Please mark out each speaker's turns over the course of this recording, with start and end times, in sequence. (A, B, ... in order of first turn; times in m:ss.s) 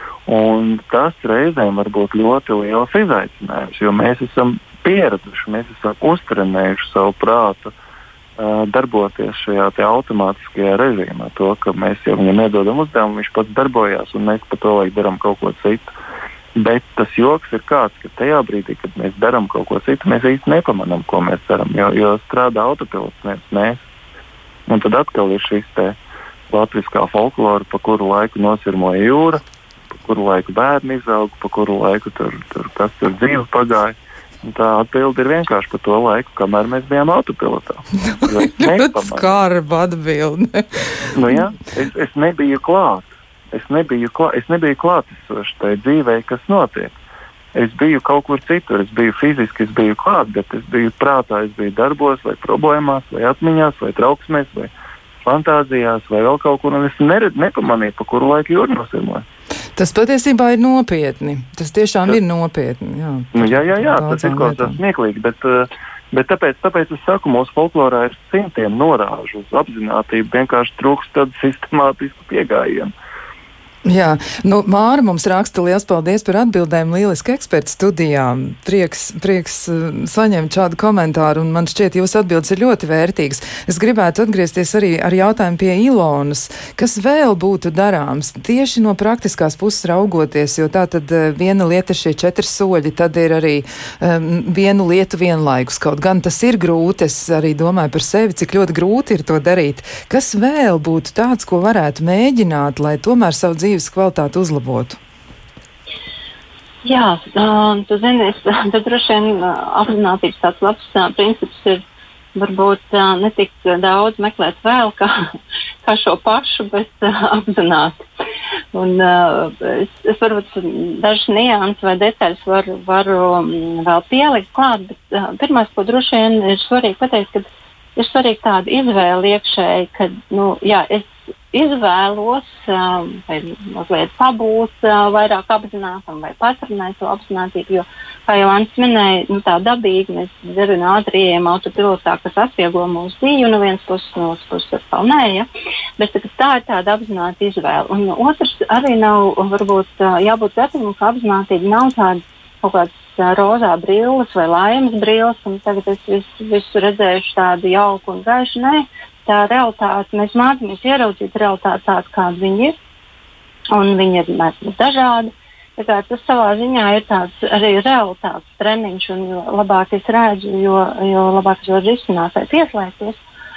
0:00.3-0:07.7 A
0:08.4-0:15.9 A
0:16.6-0:23.8 A
0:24.7-0:26.0 A
0:26.5-0:39.4 A
0:38.2-0:41.1 B
0:41.1-0:46.9 A
0:47.6-0:54.7 A
0:55.2-0:59.3 A
0:59.8-1:04.8 B
1:03.3-1:12.9 A
1:13.8-1:45.0 B
1:46.9-1:51.8 C
1:52.4-1:55.2 C
1:55.8-1:58.0 C
1:58.7-2:42.8 C
2:43.7-2:53.2 C